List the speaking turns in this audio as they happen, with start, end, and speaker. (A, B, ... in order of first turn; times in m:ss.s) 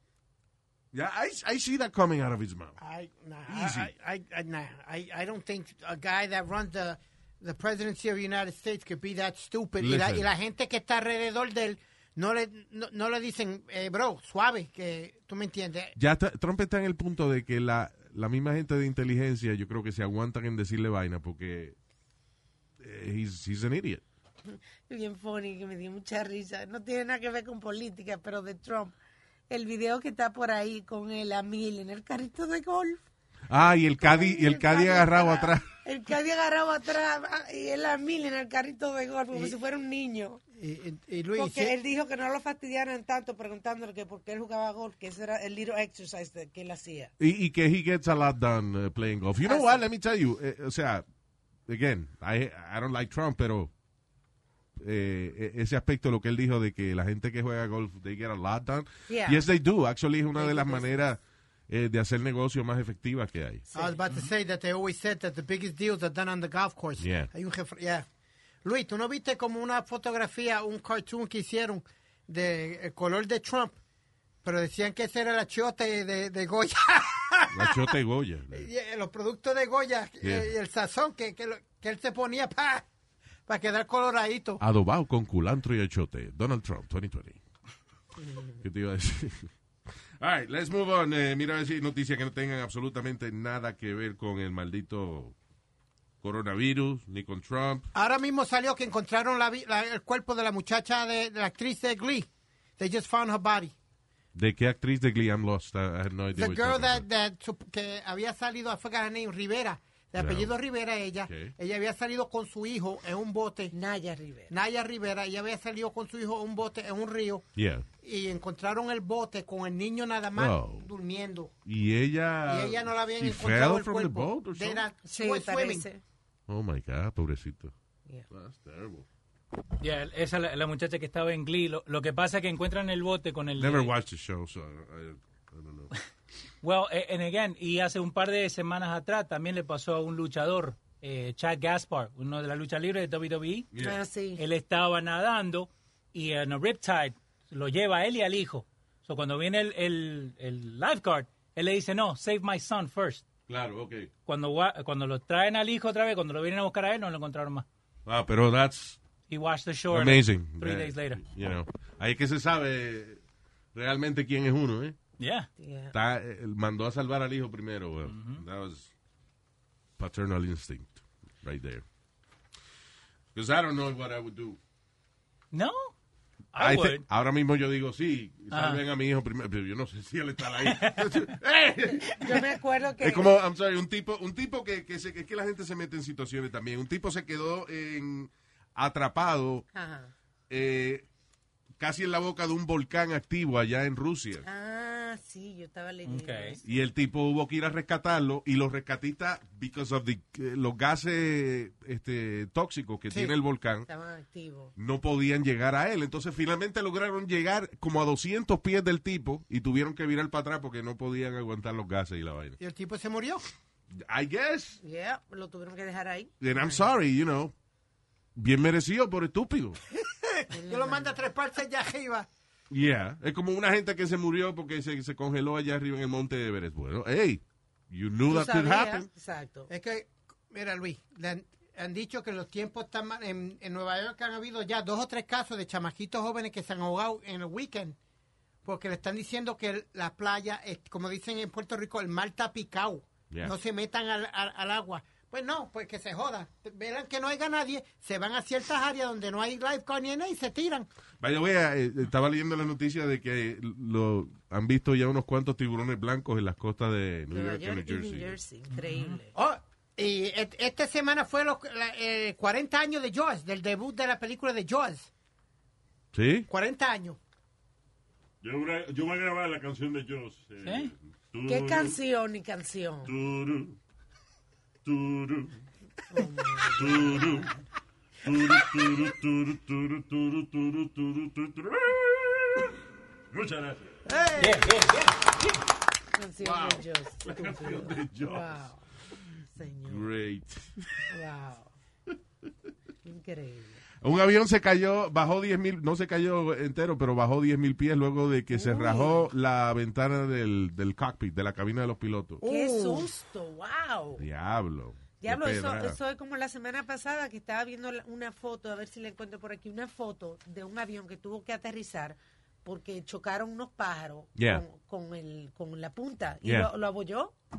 0:00.9-0:02.8 A
0:02.8-0:15.9 B
0:03.4-0:03.9 A
0:09.8-0:10.3 A
0:16.0-0:21.8 A
0:22.8-0:24.0 A
0:24.5-0:29.0 C
0:29.5-0:33.0 C
0:33.5-0:35.7 A
0:34.0-0:40.4 C
0:40.6-0:41.8 B
0:41.3-0:47.1 C
0:47.2-0:51.0 A
0:49.4-0:49.8 C
0:51.7-0:53.7 A
0:54.8-1:03.7 A
0:59.1-0:59.4 C
1:00.4-1:01.0 C
1:03.7-1:04.0 C
1:03.7-1:08.0 B
1:07.0-1:07.3 A
1:08.6-1:13.8 B
1:14.4-1:17.9 B
1:17.5-1:18.7 A
1:18.5-1:22.8 B
1:20.2-1:20.5 A
1:23.5-1:24.6 B
1:24.6-1:27.4 A
1:28.6-1:29.5 A
1:30.2-1:35.3 A
1:36.2-1:37.9 A
1:37.9-1:43.7 B
1:44.3-1:47.0 A
1:46.4-1:53.7 B
1:50.2-1:50.5 A
1:51.2-1:51.5 A
1:53.7-1:54.5 C
1:54.5-1:57.4 B
1:57.6-1:57.8 A
1:58.0-2:01.5 B
2:00.4-2:00.9 A
2:01.6-2:04.8 A
2:02.4-2:05.9 B
2:05.0-2:06.0 C
2:06.5-2:07.7 A
2:08.3-2:09.0 A
2:09.8-2:13.9 D
2:13.6-2:15.9 A
2:16.6-2:23.7 D
2:23.7-2:24.0 A
2:23.7-2:24.4 C
2:24.4-2:33.2 D
2:33.5-2:34.1 A
2:34.2-2:37.6 D
2:38.0-2:39.0 A
2:39.3-2:41.2 D
2:39.9-2:43.2 A
2:43.7-2:45.0 A
2:45.2-2:45.5 D
2:45.6-2:45.9 C
2:45.9-2:48.9 A
2:48.0-2:48.4 D
2:50.0-2:51.8 A
2:53.3-2:54.6 A
2:55.5-2:55.9 D
2:56.5-2:57.0 D
2:56.6-3:02.4 A
2:58.5-2:58.8 D
3:00.6-3:01.4 D
3:02.1-3:03.3 C
3:03.0-3:09.6 A
3:09.7-3:10.1 C
3:10.5-3:11.1 A
3:11.8-3:14.4 A
3:14.4-3:16.6 C
3:16.0-3:16.6 D
3:16.6-3:23.9 A
3:23.9-3:24.7 C
3:24.8-3:32.6 A
3:32.6-3:33.4 B
3:33.9-3:34.8 A
3:34.8-3:36.9 C
3:36.4-3:37.5 A
3:38.3-3:39.8 A
3:40.1-3:42.3 B
3:40.5-3:41.2 C
3:42.7-3:49.1 A
3:48.3-3:49.7 C
3:49.7-3:58.0 B
3:58.6-4:10.9 B
4:03.3-4:03.5 A
4:11.2-4:18.4 A
4:17.3-4:19.4 C
4:18.7-4:19.2 D
4:19.3-4:25.1 B
4:26.1-4:26.5 A
4:26.5-4:27.2 B
4:28.4-4:32.0 E
4:30.6-4:30.9 D
4:31.4-4:33.1 C
4:33.0-4:33.8 E
4:34.8-4:35.6 E
4:36.1-4:37.4 C
4:36.8-4:37.5 E
4:38.2-4:42.6 E
4:43.3-4:44.0 E
4:44.1-4:44.4 C
4:44.1-4:44.6 B
4:44.4-4:45.4 D
4:46.1-4:48.8 C
4:46.4-4:48.5 A
4:47.3-4:48.2 E
4:49.5-4:50.1 C
4:49.8-4:51.0 A
4:51.1-4:51.7 C
4:53.0-4:53.8 C
4:54.0-5:02.4 A
4:58.5-4:59.3 C
5:02.4-5:03.1 B
5:02.4-5:04.2 C
5:04.2-5:06.0 A
5:05.2-5:17.3 C
5:14.4-5:14.6 A
5:16.4-5:16.7 A